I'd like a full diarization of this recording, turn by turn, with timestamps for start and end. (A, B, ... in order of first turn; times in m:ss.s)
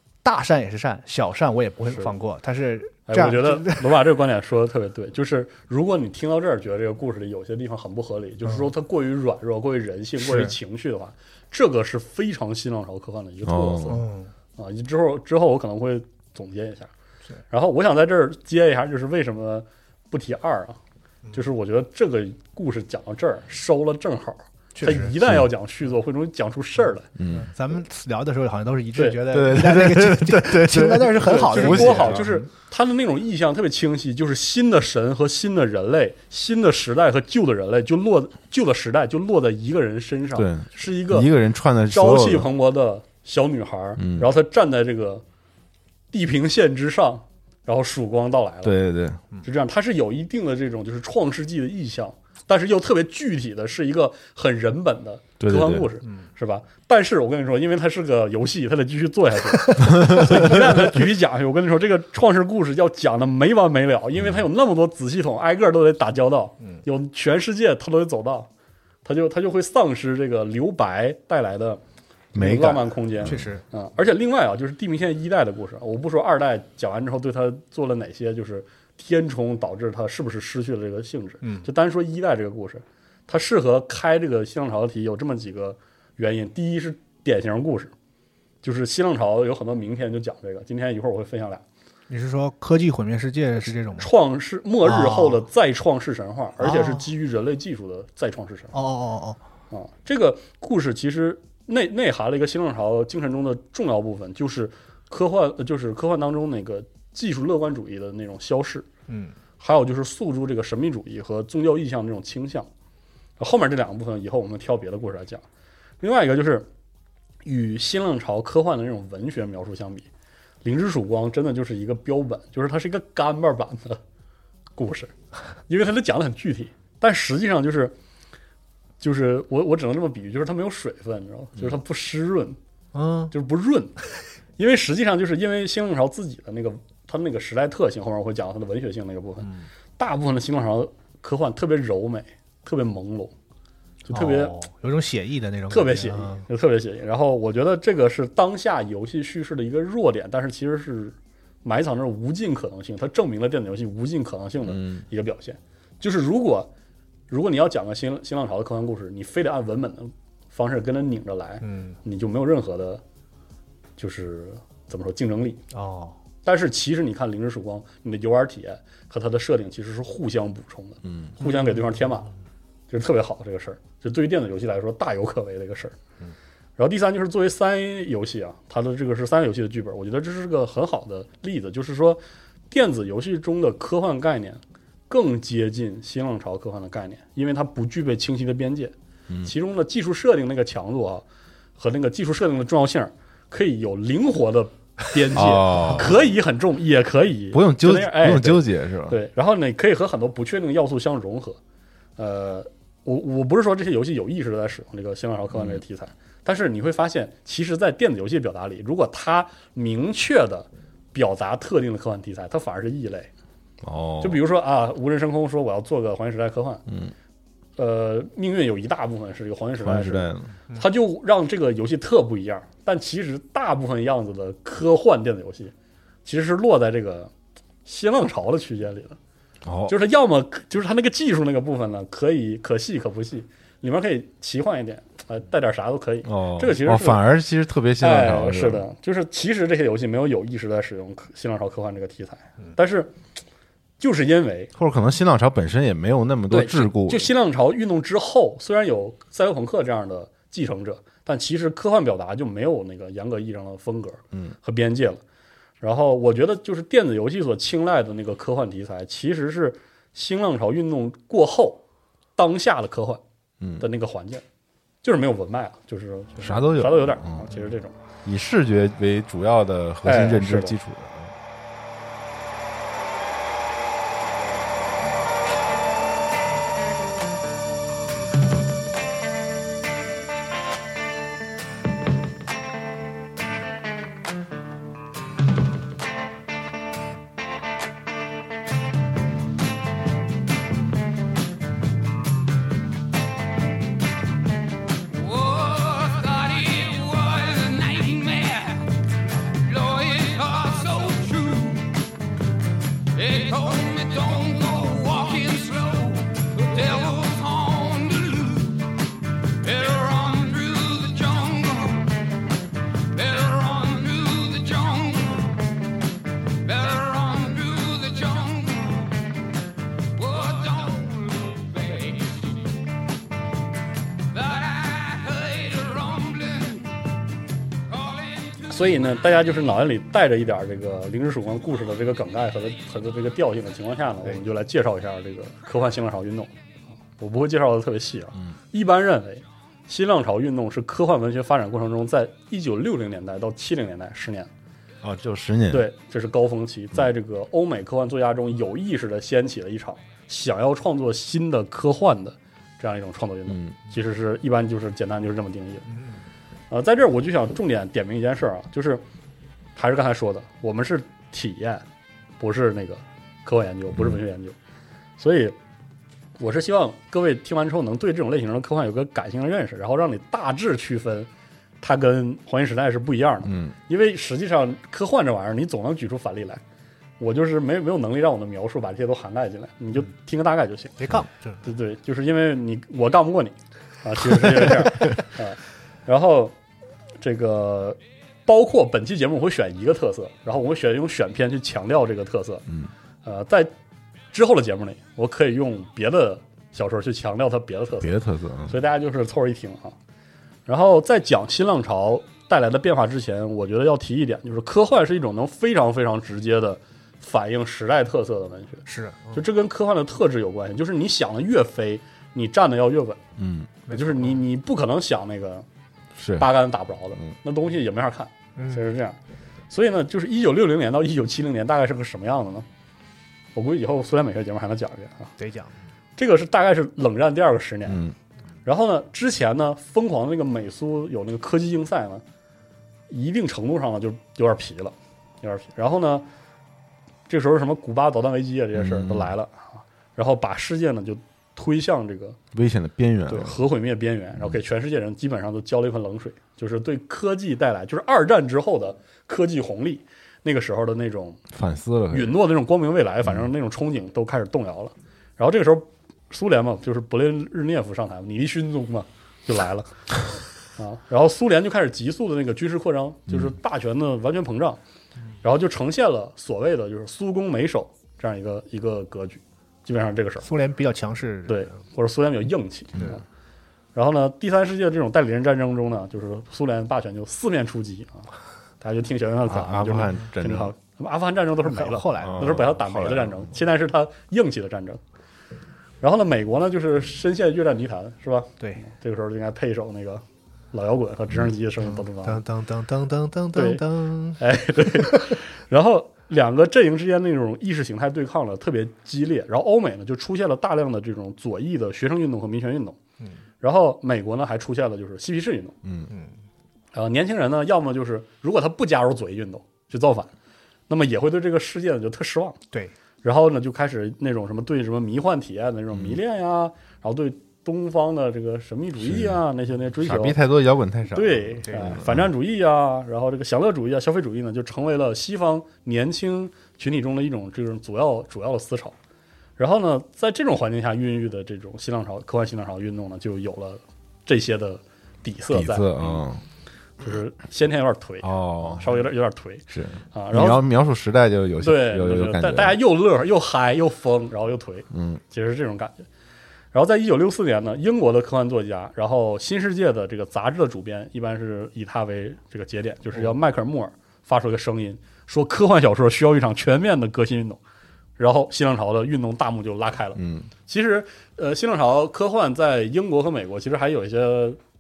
0:00.2-0:03.9 A
0:03.1-0:14.0 B
0:10.2-0:10.5 A
0:13.5-0:14.0 C
0:13.9-0:14.3 A
0:14.6-0:16.9 B
0:17.5-0:20.8 B
0:21.3-0:27.1 B
0:24.8-0:25.1 A
0:25.2-0:25.5 C
0:27.2-0:27.5 C
0:27.3-0:32.3 A
0:29.0-0:29.2 B
0:29.3-0:32.4 C
0:31.2-0:41.3 B
0:40.4-0:42.5 C
0:41.9-0:45.2 B
0:44.0-0:44.3 C
0:46.1-0:48.8 B
0:48.6-0:49.2 C
0:49.4-1:08.5 B
0:55.4-0:55.9 C
1:00.0-1:00.4 C
1:09.0-1:11.8 B
1:12.3-1:13.5 C
1:12.3-1:27.9 B
1:13.2-1:13.6 A
1:21.4-1:21.7 A
1:28.6-1:31.6 B
1:32.1-1:34.1 A
1:34.0-1:38.8 B
1:34.8-1:35.4 A
1:36.6-1:37.0 A
1:38.7-1:39.4 A
1:39.7-1:48.9 B
1:49.1-1:49.4 A
1:49.6-1:52.7 B
1:53.4-1:55.4 B
1:56.0-1:56.7 B
1:57.4-2:00.1 B
2:00.6-2:04.0 B
2:04.8-2:05.1 B
2:05.7-2:07.9 B
2:09.0-2:12.6 B
2:12.9-2:13.3 A
2:13.3-2:13.9 B
2:14.6-2:23.3 B
2:24.0-2:24.6 B
2:24.1-2:26.4 A
2:25.7-2:36.7 B
2:34.7-2:35.0 C
2:37.3-2:43.0 B
2:41.6-2:42.0 A
2:44.0-2:45.6 B
2:45.7-2:46.2 A
2:46.4-2:52.3 B
2:51.0-2:51.3 C
2:51.4-2:51.8 A
2:52.9-2:56.0 B
2:56.8-3:11.2 B
3:11.8-3:21.6 B
3:15.3-3:16.2 C
3:17.5-3:19.2 C
3:22.2-3:33.3 B
3:25.6-3:25.8 C
3:33.8-3:34.4 C
3:34.2-3:36.8 B
3:36.9-3:37.1 C
3:37.8-3:45.7 B
3:39.8-3:40.5 C
3:46.2-3:47.3 B
3:47.9-3:49.2 B
3:49.6-3:50.0 C
3:49.9-3:57.2 B
3:56.3-3:58.9 C
3:58.0-4:03.1 B
4:04.0-4:04.7 B
4:04.8-4:07.3 C
4:06.5-4:15.2 B
4:15.8-4:21.8 B
4:22.4-4:23.2 B
4:23.8-4:24.4 B
4:25.0-4:28.0 B
4:26.4-4:27.5 C
4:28.2-4:31.4 C
4:30.0-4:30.8 B
4:57.8-4:58.2 D
5:03.5-5:06.0 D
5:10.0-5:11.0 D
5:13.5-5:14.5 D
5:17.1-5:18.0 D
5:28.6-5:36.5 B
5:37.2-5:44.5 B
5:45.0-5:45.9 C
5:45.7-5:55.9 B
5:53.5-5:53.8 C
5:56.7-5:59.0 B
5:59.8-6:01.8 B
6:02.4-6:04.6 B
6:05.2-6:05.6 B
6:06.4-6:11.3 B
6:11.8-6:16.6 B
6:13.5-6:13.7 C
6:17.2-6:21.0 B
6:21.0-6:21.6 A
6:21.6-6:26.6 B
6:27.2-6:32.7 B
6:33.2-6:33.7 B
6:34.3-6:40.0 B
6:38.0-6:38.8 C
6:40.7-6:53.2 B
6:48.9-6:49.4 A
6:53.4-6:53.7 C
6:53.9-6:54.4 A
6:53.9-6:55.6 B
6:56.2-6:56.5 C
6:56.4-6:59.2 B
6:58.6-6:58.8 A
6:59.7-7:02.7 B
7:03.6-7:05.3 B
7:05.4-7:05.7 A
7:06.2-7:08.0 B
7:07.9-7:08.2 C
7:08.6-7:12.2 B
7:13.1-7:16.3 B
7:17.3-7:22.4 B
7:18.8-7:19.3 C
7:22.5-7:23.6 C
7:23.3-7:31.4 B
7:31.5-7:32.4 C
7:32.1-7:40.0 B
7:40.8-7:44.8 B
7:43.3-7:43.5 C
7:45.4-7:50.5 B
7:50.4-7:51.7 A
7:51.5-7:53.2 B
7:54.0-7:58.3 B
7:58.8-8:05.0 B
7:59.5-8:00.7 C
8:01.6-8:02.6 A
8:02.2-8:03.5 C
8:06.0-8:12.4 B
8:11.8-8:15.4 A
8:13.5-8:13.8 B
8:14.4-8:23.0 B
8:23.6-8:25.8 B
8:25.8-8:26.1 C
8:26.9-8:30.3 B
8:30.9-8:32.6 B
8:33.2-8:40.4 B
8:35.9-8:36.2 C
8:39.0-8:39.4 C
8:40.0-8:42.2 C
8:41.1-8:49.0 B
8:41.7-8:42.0 A
8:49.6-8:56.2 B
8:55.5-8:56.4 C
8:57.0-9:00.6 B
8:58.2-8:58.9 C
8:59.7-9:02.8 C
9:01.6-9:06.1 B
9:04.9-9:05.2 C
9:06.7-9:17.6 B
9:18.2-9:24.6 B
9:20.2-9:20.5 C